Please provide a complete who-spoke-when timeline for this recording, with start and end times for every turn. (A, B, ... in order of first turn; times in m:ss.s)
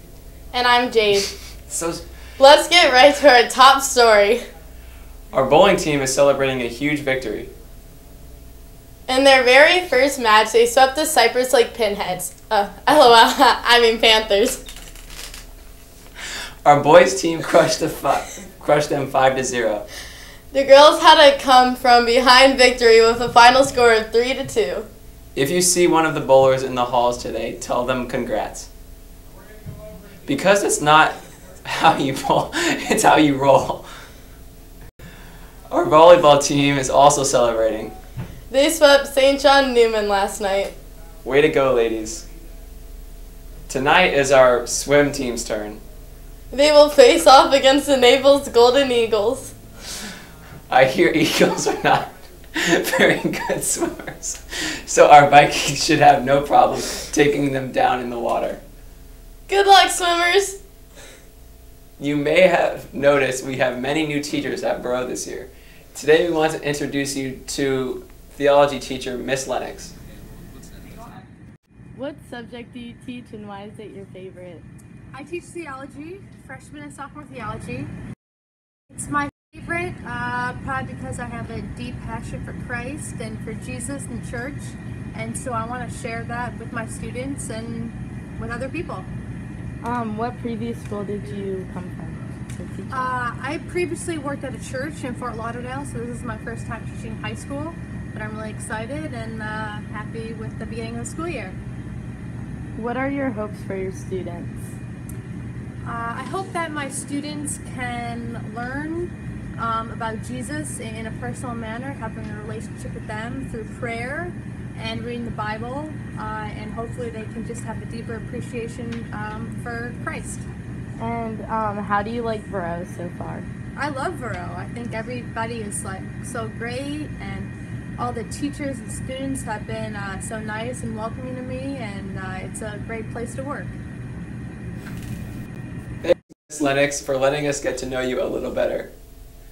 0:00.5-0:01.3 A
0:01.7-0:02.0 B
0:02.4-0:04.4 A
0:05.3-0:07.5 B
0:09.1-0:14.6 A
0:16.6-0:19.8 B
0:20.5-0:24.9 A
0:25.4-0:28.7 B
0:30.2-0:33.9 B
0:35.7-0:37.9 B
0:38.5-0:40.8 A
0:41.2-0:42.2 B
0:43.7-0:45.8 B
0:46.5-0:49.6 A
0:50.7-0:58.6 B
0:59.5-1:00.6 A
1:02.0-1:09.9 B
1:12.0-1:14.7 A
1:15.1-1:17.9 C
1:18.9-1:29.1 C
1:29.8-1:33.2 A
1:32.9-1:41.6 C
1:42.8-1:44.7 A
1:45.8-2:00.5 C
2:01.0-2:03.5 A
2:03.8-2:13.8 C
2:16.0-2:18.9 B